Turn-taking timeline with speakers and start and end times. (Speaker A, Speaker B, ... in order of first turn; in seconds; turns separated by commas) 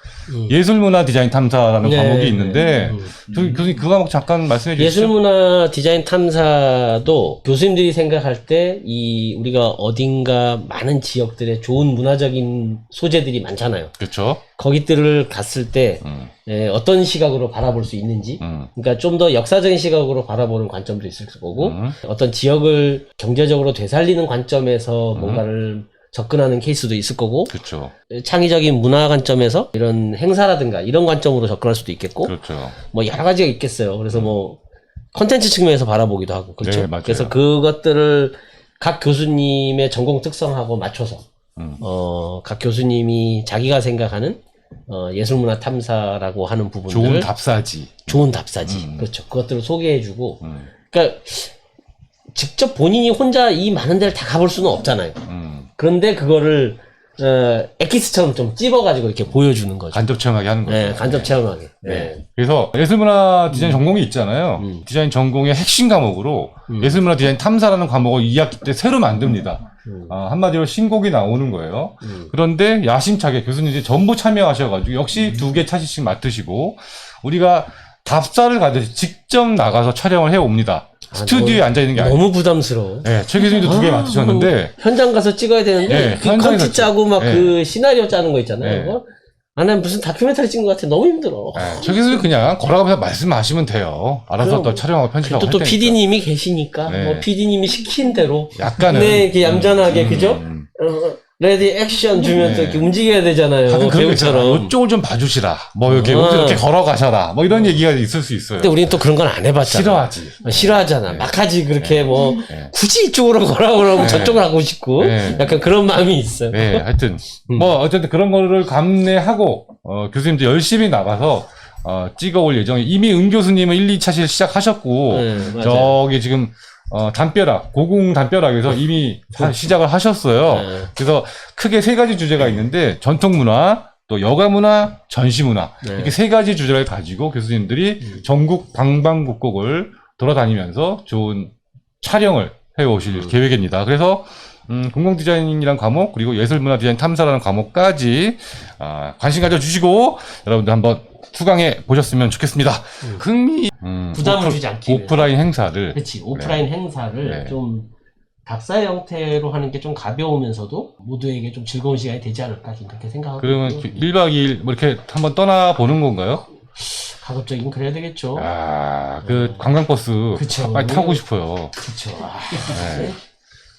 Speaker A: 0.3-0.5, Speaker B: 0.4-5.1, Speaker A: 1.8-3.6, Speaker A: 4.7-14.0, Speaker B: 14.0-14.4, Speaker A: 14.6-27.5, Speaker B: 18.4-18.7, Speaker B: 21.6-21.9, Speaker B: 25.1-25.4, Speaker B: 27.5-27.9, Speaker A: 28.1-34.6, Speaker B: 32.2-32.7, Speaker A: 35.1-41.2, Speaker B: 36.6-37.3, Speaker A: 41.8-47.3, Speaker B: 46.9-49.1, Speaker A: 48.0-51.5, Speaker B: 50.4-50.7, Speaker A: 52.3-55.2, Speaker B: 55.3-55.7, Speaker A: 55.8-60.0, Speaker B: 59.9-82.2, Speaker A: 60.6-62.2, Speaker A: 63.5-63.8, Speaker A: 64.6-64.8, Speaker A: 66.7-67.0, Speaker A: 69.8-70.1, Speaker A: 72.0-72.3, Speaker A: 81.1-89.0, Speaker B: 83.0-84.7, Speaker B: 85.9-87.6, Speaker B: 88.6-88.9, Speaker A: 89.5-92.0, Speaker B: 91.5-96.0, Speaker A: 94.4-104.7, Speaker B: 96.8-97.3, Speaker B: 98.5-100.7, Speaker B: 102.3-102.9, Speaker B: 103.6-109.0, Speaker A: 105.9-106.7, Speaker A: 107.5-107.8, Speaker A: 108.6-116.8, Speaker B: 109.6-112.7, Speaker B: 114.0-114.5, Speaker B: 115.0-115.7, Speaker B: 116.5-156.6, Speaker A: 125.1-126.0, Speaker A: 130.5-130.9, Speaker A: 135.8-136.1, Speaker A: 154.1-155.4, Speaker A: 155.9-157.9, Speaker B: 157.2-157.6, Speaker A: 158.4-164.0, Speaker B: 163.4-166.4, Speaker A: 166.8-168.5, Speaker B: 168.3-171.7, Speaker A: 169.2-169.7, Speaker A: 170.3-171.2, Speaker A: 171.8-173.2, Speaker B: 172.7-173.2